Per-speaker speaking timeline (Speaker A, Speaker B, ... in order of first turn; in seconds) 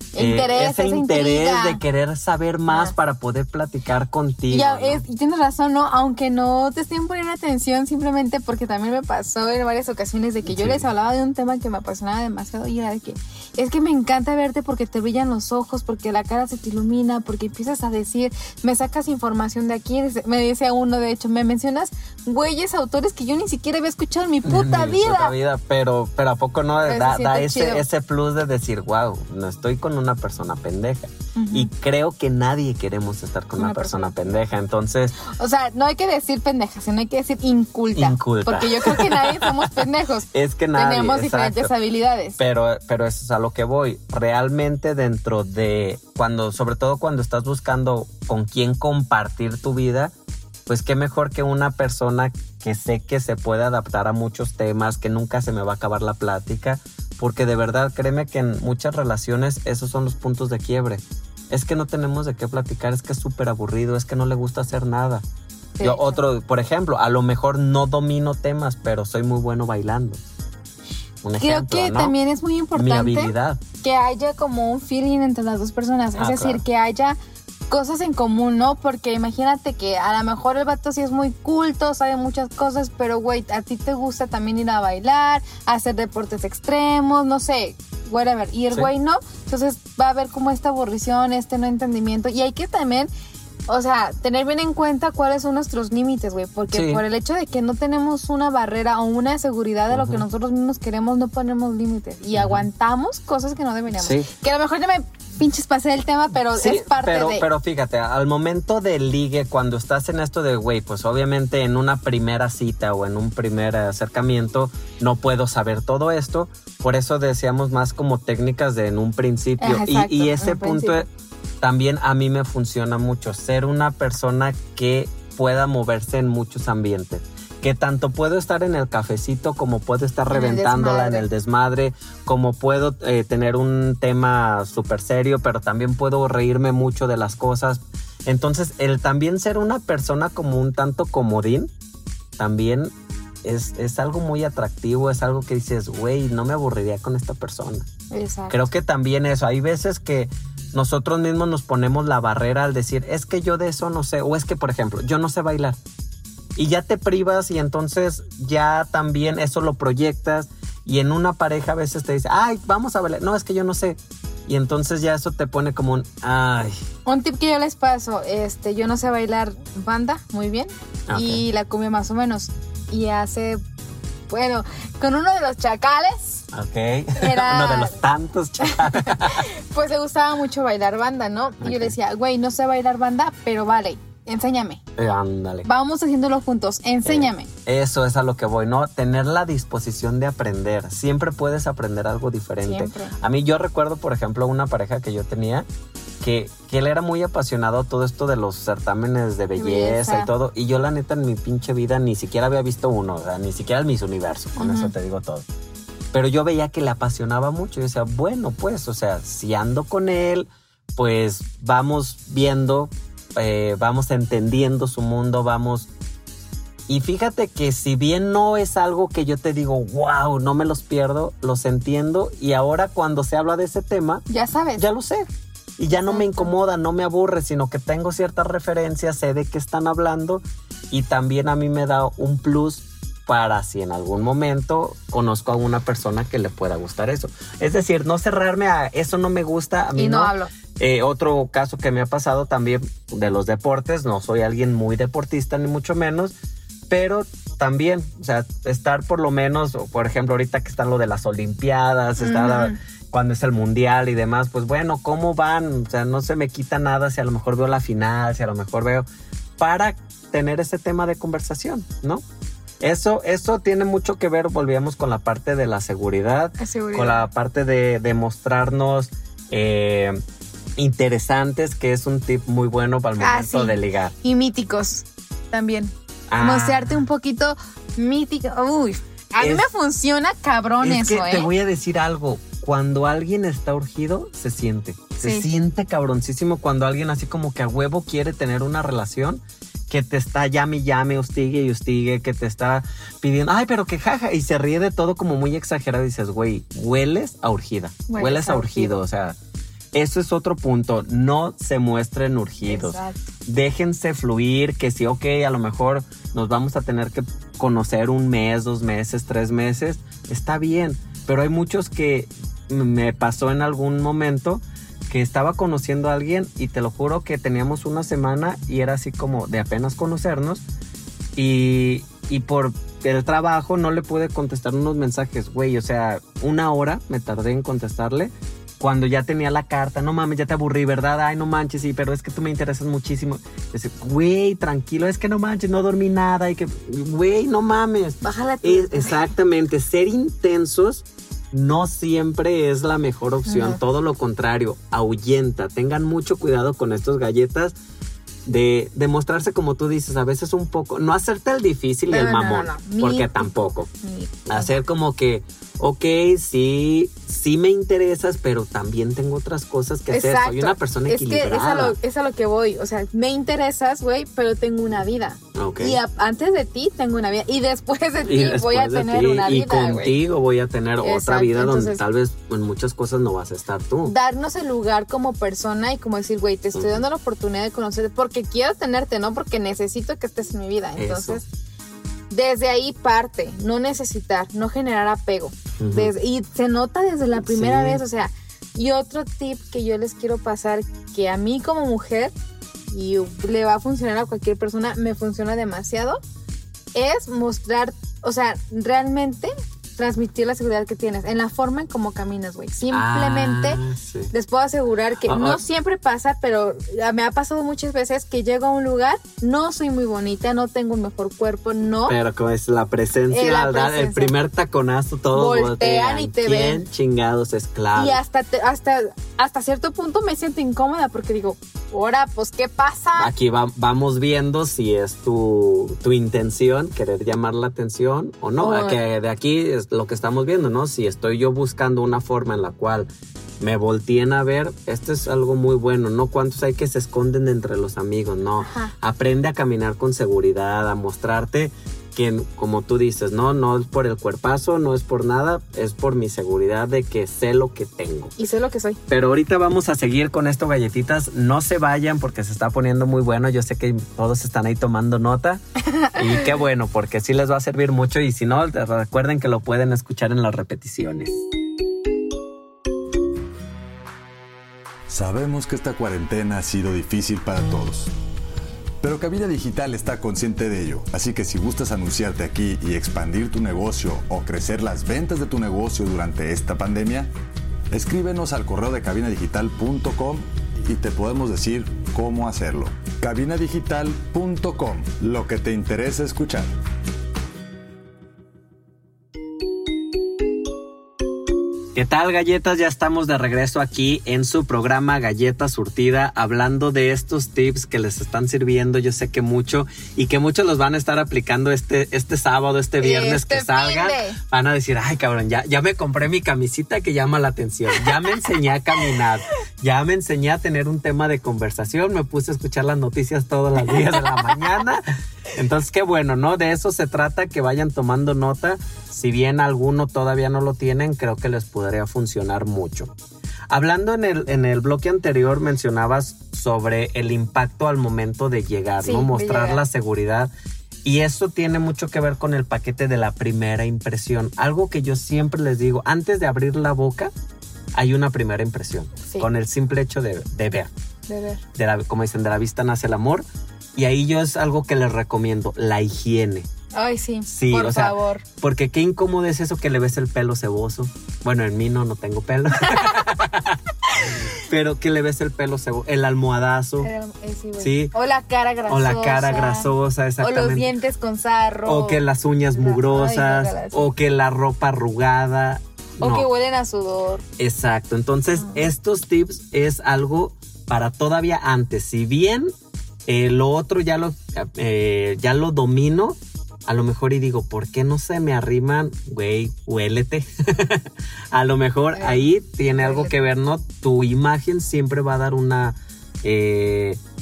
Speaker A: 0.1-1.8, 2.7-2.9, 4.5-25.3, 26.9-27.8, 31.4-31.7, 33.5-34.4, 35.2-42.4, 65.8-66.2, 71.4-77.2, 77.7-93.1, 93.7-107.5, 119.6-121.0, 130.3-131.2, 148.1-148.6, 167.1-173.6, 174.3-176.4, 177.2-178.0, 178.9-184.8, 185.6-187.5, 192.6-193.1, 199.6-200.3, 204.6-204.9, 224.3-224.9, 225.9-226.5, 239.9-240.5, 252.2-252.8, 266.6-267.2, 273.2-281.5, 285.2-285.5, 298.1-298.9, 302.6-303.2, 338.2-339.2, 343.5-343.8, 352.1-354.7, 360.1-370.1, 371.0-372.0, 374.0-381.4, 382.3-392.3, 392.9-396.2, 396.9-403.8, 404.3-412.2, 413.3-414.3, 415.3-416.8, 417.9-423.3, 428.6-429.0, 438.6-438.9, 448.4-449.0, 503.0-504.4, 513.9-514.4, 529.0-529.8, 541.3-541.6, 546.9-548.4, 557.0-559.9, 560.4-562.2, 562.7-564.1, 566.2-567.4, 582.1-583.3
Speaker B: 0.1-5.0, 10.4-10.9, 24.4-35.2, 37.9-41.7, 42.4-50.1, 50.7-65.2, 65.8-70.2, 71.2-72.2, 72.7-73.6, 76.2-76.6, 96.7-97.0, 99.9-100.2, 102.3-102.6, 104.0-104.3, 106.6-121.1, 121.6-141.7, 142.4-142.9, 143.4-147.9, 148.5-155.8, 156.6-166.8, 171.1-171.4, 176.5-179.4, 181.6-181.9, 184.9-185.7, 187.0-195.7, 196.2-205.5, 206.1-215.9, 216.9-224.2, 224.8-246.3, 246.9-259.1, 259.6-262.2, 262.8-270.2, 270.8-274.1, 276.3-277.0, 279.4-279.7, 280.8-299.4, 299.9-320.6, 321.4-347.7, 348.4-353.9, 354.5-362.0, 365.5-366.0, 368.2-374.1, 376.7-377.0, 381.0-381.4, 385.8-386.1, 387.4-388.0, 402.9-404.3, 405.2-405.6, 412.0-418.2, 423.1-433.1, 433.6-448.4, 449.1-455.6, 456.1-461.4, 491.9-523.1, 523.7-530.5, 531.0-537.3, 537.9-540.9, 541.7-546.7, 547.5-557.1, 557.8-558.1, 558.9-560.9, 561.9-566.5, 567.6-572.7, 573.2-587.2
Speaker C: 465.1-468.1, 469.0-477.3, 477.9-486.7